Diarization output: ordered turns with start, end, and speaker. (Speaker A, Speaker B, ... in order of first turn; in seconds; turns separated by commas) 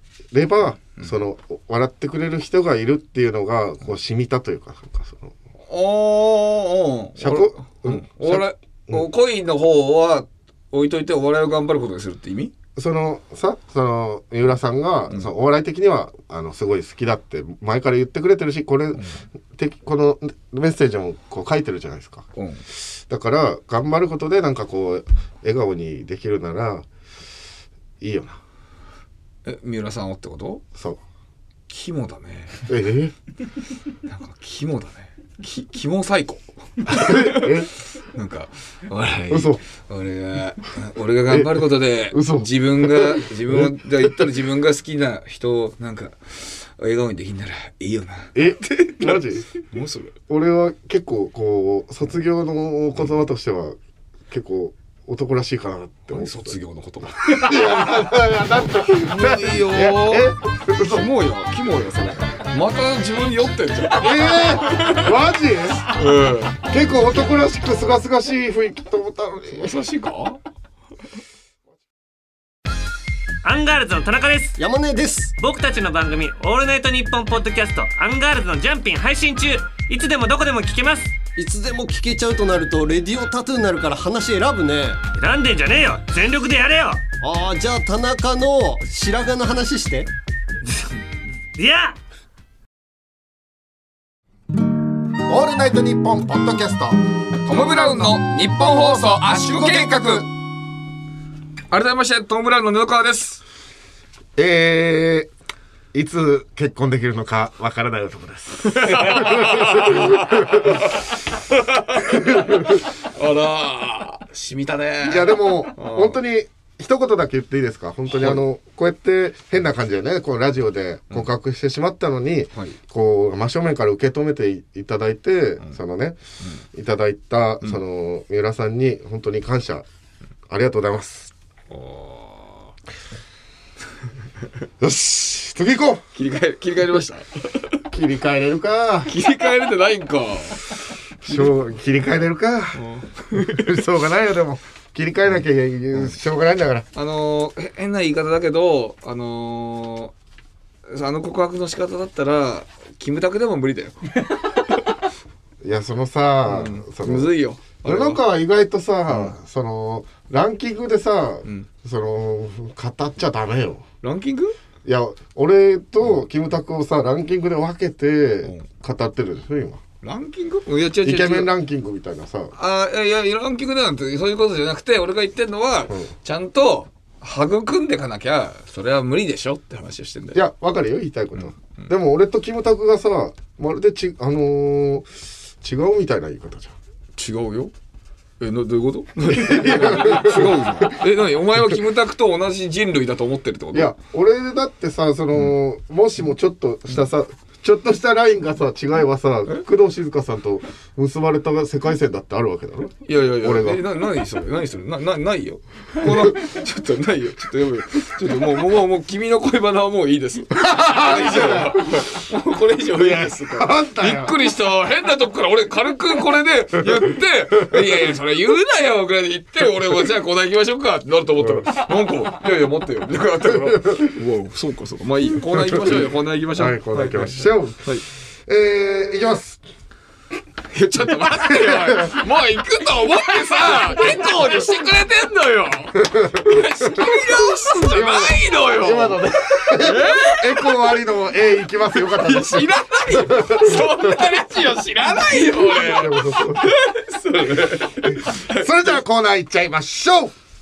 Speaker A: 0.3-5.3, Speaker B: 5.7-12.5, Speaker A: 7.2-9.1, Speaker A: 12.8-22.3, Speaker B: 22.4-22.6, Speaker A: 22.8-26.9, Speaker A: 28.0-28.4, Speaker B: 29.4-30.6, Speaker A: 30.8-31.0, Speaker B: 31.7-32.7, Speaker A: 32.7-33.1, Speaker B: 34.1-50.1, Speaker A: 36.9-37.7, Speaker A: 39.3-39.6, Speaker A: 41.3-44.2, Speaker A: 48.4-49.5, Speaker A: 50.3-53.8, Speaker A: 54.3-56.6, Speaker B: 56.1-57.9, Speaker A: 57.2-61.1, Speaker B: 58.9-65.1, Speaker A: 64.0-65.8, Speaker B: 65.9-66.6, Speaker A: 66.6-69.8, Speaker B: 69.5-70.4, Speaker C: 73.4-74.6, Speaker D: 74.6-75.4, Speaker C: 75.4-81.2, Speaker D: 81.4-85.0, Speaker C: 85.2-87.0, Speaker D: 87.2-90.1, Speaker C: 91.6-92.0, Speaker A: 95.3-97.0, Speaker B: 97.5-100.3, Speaker A: 99.1-100.3, Speaker B: 101.7-103.4, Speaker A: 104.4-105.3, Speaker A: 105.9-110.9, Speaker B: 108.7-116.2, Speaker A: 112.1-112.8, Speaker A: 115.0-126.2, Speaker A: 126.7-129.9, Speaker A: 130.5-131.3, Speaker B: 131.7-132.7, Speaker A: 134.8-136.0, Speaker B: 136.2-137.8, Speaker A: 137.9-139.1, Speaker B: 139.1-140.7, Speaker A: 141.2-146.9, Speaker B: 142.8-143.7, Speaker B: 146.9-150.1, Speaker B: 150.9-154.0, Speaker A: 155.6-157.3, Speaker B: 156.5-158.2, Speaker A: 157.8-163.8, Speaker B: 164.0-164.6, Speaker A: 164.8-169.8, Speaker B: 170.0-171.5, Speaker A: 171.0-172.5, Speaker B: 172.6-180.4, Speaker A: 180.3-185.1, Speaker B: 181.4-181.9, Speaker A: 185.6-186.8, Speaker B: 187.2-187.7, Speaker B: 188.4-193.9, Speaker A: 189.3-191.1, Speaker A: 193.7-203.8, Speaker B: 203.1-228.0, Speaker A: 206.0-206.3, Speaker A: 210.6-212.1, Speaker A: 212.9-214.4, Speaker A: 221.4-221.7, Speaker A: 223.5-224.1, Speaker A: 225.5-227.9, Speaker A: 228.5-229.6, Speaker B: 230.7-240.8, Speaker A: 231.4-232.2, Speaker A: 236.0-244.2, Speaker B: 242.0-248.9, Speaker A: 245.5-246.7, Speaker A: 248.0-250.3